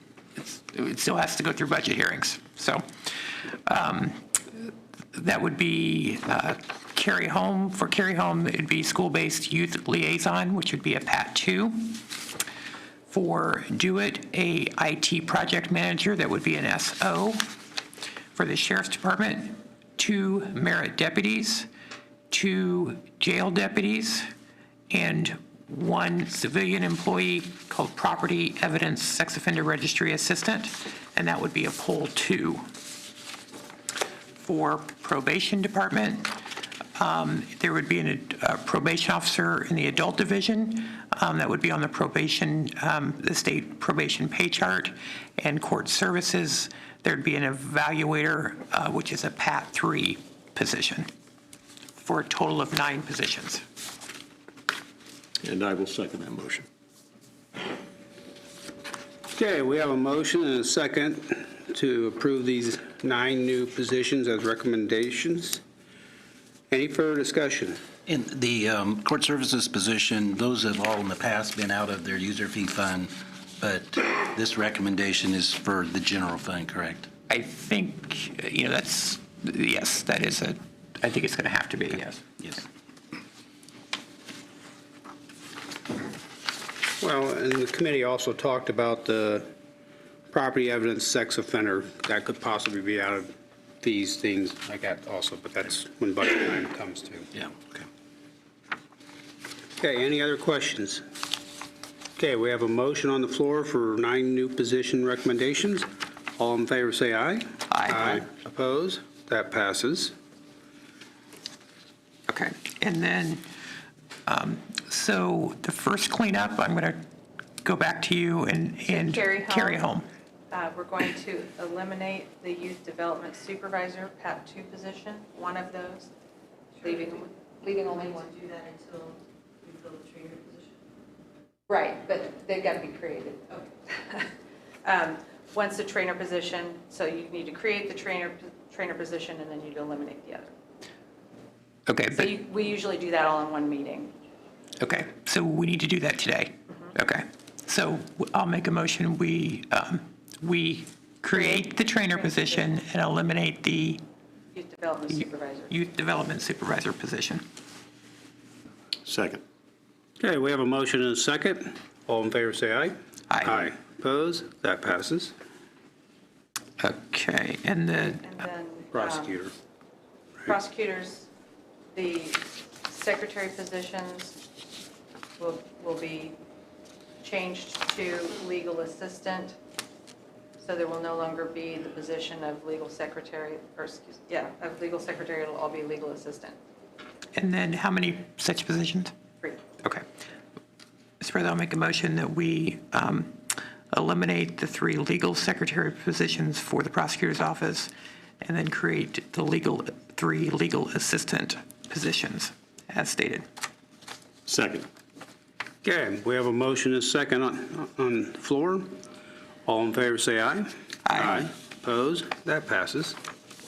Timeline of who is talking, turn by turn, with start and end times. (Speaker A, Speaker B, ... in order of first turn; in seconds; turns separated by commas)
Speaker A: 0.4-2.8, Speaker A: 3.5-12.0, Speaker A: 13.1-17.5, Speaker A: 18.3-21.7, Speaker A: 22.3-24.3, Speaker A: 24.9-32.7, Speaker A: 34.4-36.4, Speaker A: 37.0-51.1, Speaker A: 52.0-53.6, Speaker B: 55.4-56.7, Speaker C: 59.3-65.6, Speaker C: 66.7-67.8, Speaker D: 68.1-77.1, Speaker A: 77.3-82.3, Speaker C: 87.0-89.5, Speaker C: 90.3-93.3, Speaker C: 93.8-97.3, Speaker C: 99.8-101.0, Speaker C: 102.2-110.2, Speaker A: 107.7-108.2, Speaker A: 112.3-113.5, Speaker A: 114.3-117.0, Speaker A: 117.6-120.1, Speaker E: 118.9-119.8, Speaker E: 120.5-126.1, Speaker F: 126.8-127.2, Speaker E: 126.8-128.3, Speaker F: 127.8-130.8, Speaker E: 131.7-134.3, Speaker E: 134.8-140.5, Speaker A: 141.9-142.3, Speaker E: 142.1-144.1, Speaker A: 144.8-154.0, Speaker E: 151.3-152.7, Speaker E: 154.5-155.7, Speaker A: 155.1-157.4, Speaker B: 159.1-159.4, Speaker C: 160.2-165.3, Speaker A: 163.3-163.7, Speaker A: 166.8-168.3, Speaker E: 168.2-169.4, Speaker C: 168.9-169.5, Speaker E: 170.5-171.3, Speaker E: 171.9-174.4, Speaker E: 175.4-176.4, Speaker E: 177.2-179.6, Speaker E: 180.6-186.6, Speaker A: 187.3-189.1, Speaker A: 191.2-197.9, Speaker A: 198.4-203.5, Speaker B: 204.5-204.9, Speaker C: 205.8-209.0, Speaker C: 209.7-213.2, Speaker A: 211.1-211.5